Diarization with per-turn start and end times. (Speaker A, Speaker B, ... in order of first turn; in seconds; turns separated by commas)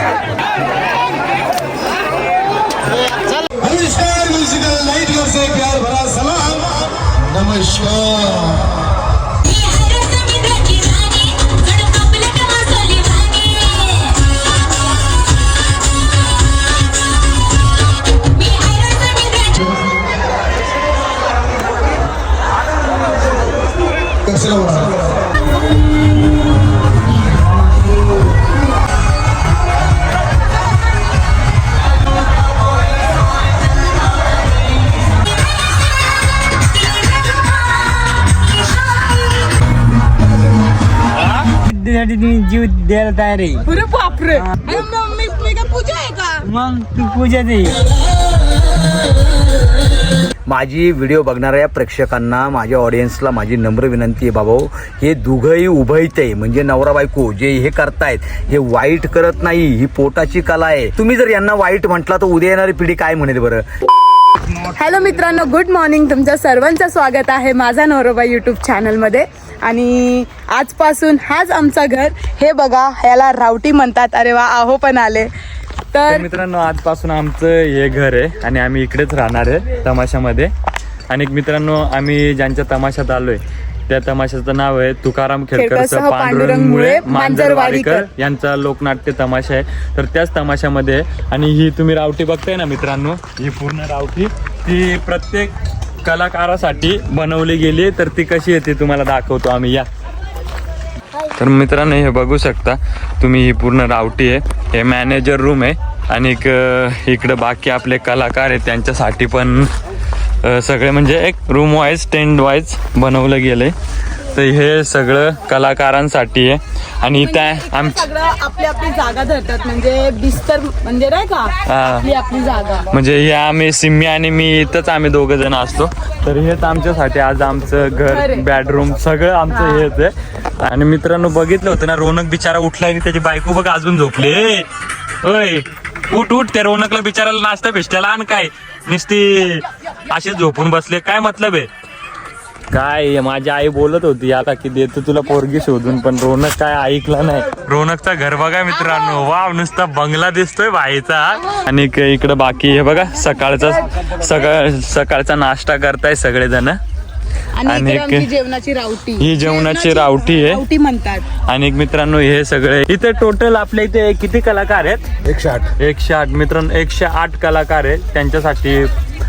Speaker A: 3.6-8.6, Speaker A: 24.3-25.0, Speaker B: 41.7-43.6, Speaker C: 43.6-46.4, Speaker B: 46.4-47.7, Speaker D: 50.5-63.6, Speaker C: 64.7-75.3, Speaker C: 75.9-76.3, Speaker E: 76.1-80.5, Speaker E: 81.1-95.5, Speaker C: 85.5-88.1, Speaker E: 96.0-99.9, Speaker E: 101.3-109.7, Speaker E: 110.4-113.7, Speaker E: 114.3-118.1, Speaker C: 117.2-122.8, Speaker E: 121.7-122.0, Speaker E: 122.9-134.7, Speaker C: 128.1-128.4, Speaker C: 129.5-129.8, Speaker E: 135.2-141.7, Speaker E: 142.7-156.8, Speaker C: 157.6-161.2, Speaker E: 157.7-158.3, Speaker E: 159.2-160.6, Speaker E: 161.5-165.1, Speaker D: 165.2-165.7, Speaker E: 165.8-168.9